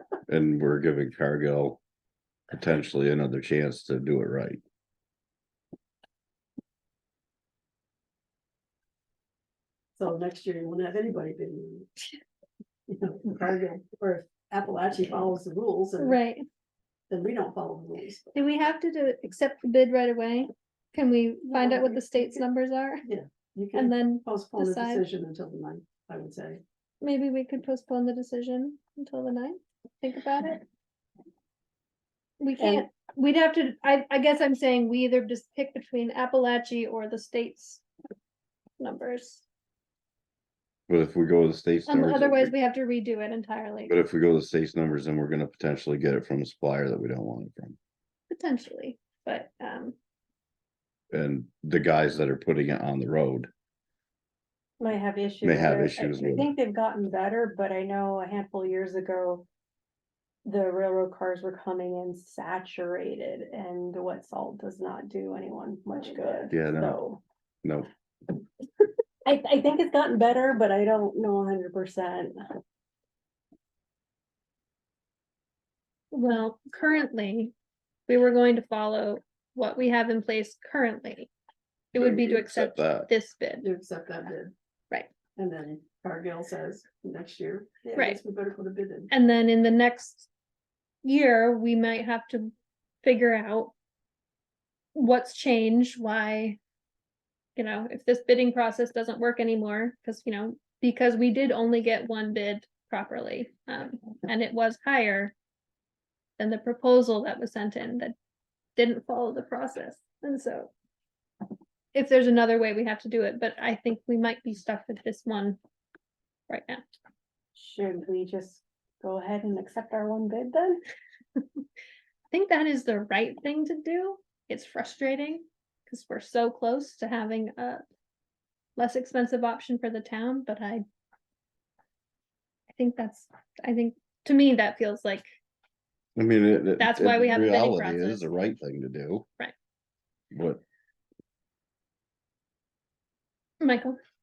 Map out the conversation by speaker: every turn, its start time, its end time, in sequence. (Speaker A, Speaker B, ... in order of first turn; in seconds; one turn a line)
Speaker A: 0.3-1.8
Speaker A: 2.5-4.6
Speaker B: 10.0-11.9
Speaker B: 12.9-16.2
Speaker C: 16.0-16.4
Speaker B: 17.1-18.3
Speaker C: 18.3-23.0
Speaker B: 21.5-22.4
Speaker B: 23.1-26.6
Speaker C: 23.7-25.1
Speaker C: 27.0-30.6
Speaker C: 32.4-37.8
Speaker B: 32.6-32.9
Speaker C: 38.8-39.4
Speaker A: 40.9-42.5
Speaker C: 41.9-43.9
Speaker A: 43.9-47.8
Speaker C: 48.3-50.0
Speaker A: 51.1-53.5
Speaker D: 54.8-59.5
Speaker A: 55.4-56.5
Speaker D: 60.4-67.2
Speaker A: 66.5-67.0
Speaker A: 67.6-67.9
Speaker D: 69.2-72.5
Speaker C: 76.1-77.5
Speaker C: 78.1-81.3
Speaker C: 81.9-83.7
Speaker A: 82.0-83.1
Speaker B: 83.6-84.5
Speaker B: 85.3-89.1
Speaker C: 89.1-90.3
Speaker C: 91.0-93.7
Speaker C: 94.9-96.6
Speaker C: 97.5-105.3
Speaker C: 106.4-108.1
Speaker C: 108.8-110.7
Speaker C: 111.9-115.6
Speaker C: 116.5-116.8
Speaker D: 117.5-120.8
Speaker C: 122.3-127.8
Speaker C: 128.8-130.8
Speaker C: 132.7-135.3
Speaker A: 136.2-139.3
Speaker C: 136.8-138.3
Speaker A: 140.3-140.6
Speaker C: 143.6-144.0